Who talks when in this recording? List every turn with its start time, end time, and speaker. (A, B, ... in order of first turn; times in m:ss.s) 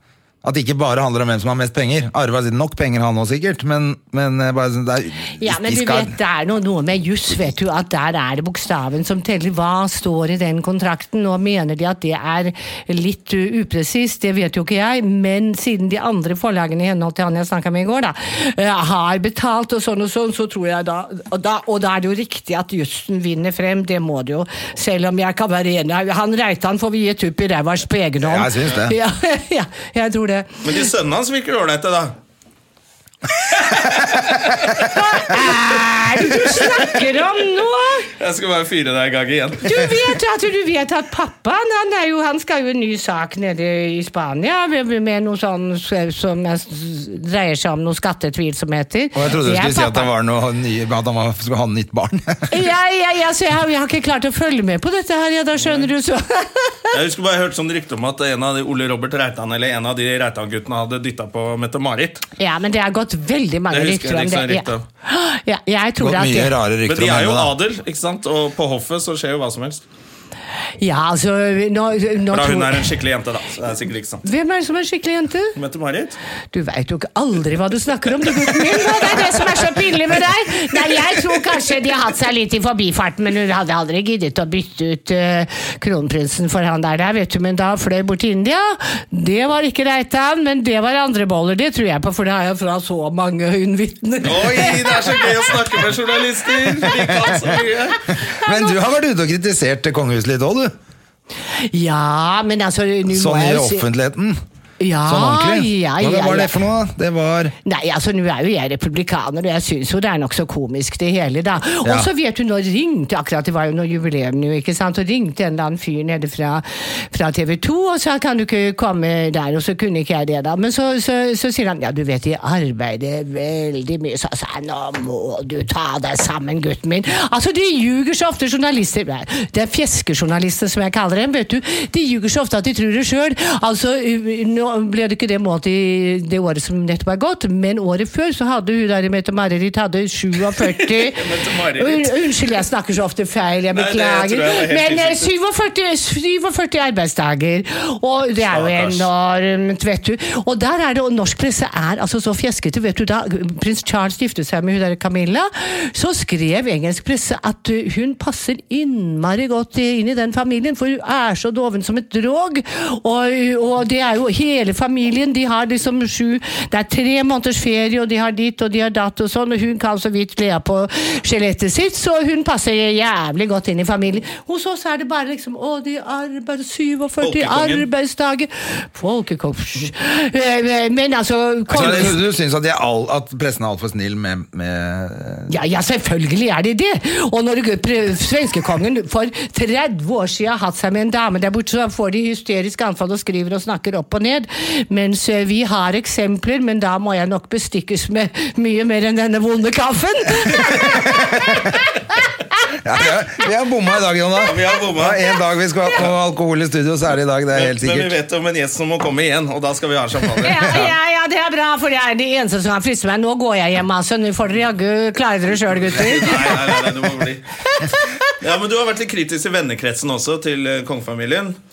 0:00.4-0:06.1 A
0:05.4-0:30.7 B
0:28.2-0:29.0 A
0:30.6-0:32.2 C
0:33.5-0:35.3 C
0:34.9-0:38.1 B
0:36.5-0:36.9 C
0:38.2-0:40.0 C
0:39.6-0:50.1 B
0:49.1-0:52.5 A
0:52.5-0:56.9 B
0:55.6-0:55.9 C
0:56.9-1:02.2 C
1:02.4-1:06.5 B
1:03.7-1:04.8 C
1:06.0-1:07.5 A
1:06.9-1:09.8 C
1:10.8-1:12.9 B
1:12.3-1:14.2 C
1:14.2-1:15.5 B
1:15.6-1:16.2 C
1:16.5-1:35.3 B
1:34.2-1:38.0 C
1:36.8-1:37.5 A
1:38.3-1:40.7 A
1:38.4-1:38.8 B
1:41.6-1:43.9 B
1:43.1-1:44.4 A
1:44.8-1:46.6 B
1:45.0-1:47.5 A
1:47.6-3:02.2 B
1:51.8-1:52.1 A
2:20.8-2:22.1 C
2:23.7-2:25.3 C
2:28.5-2:29.1 C
2:57.2-2:57.9 C
3:01.7-3:05.5 A
3:01.7-3:02.1 C
3:05.5-3:21.9 B
3:22.8-3:28.1 A
3:24.4-3:25.2 C
3:27.5-3:30.9 C
3:30.4-3:36.8 B
3:35.8-3:37.4 C
3:37.7-3:38.3 B
3:38.4-3:41.6 C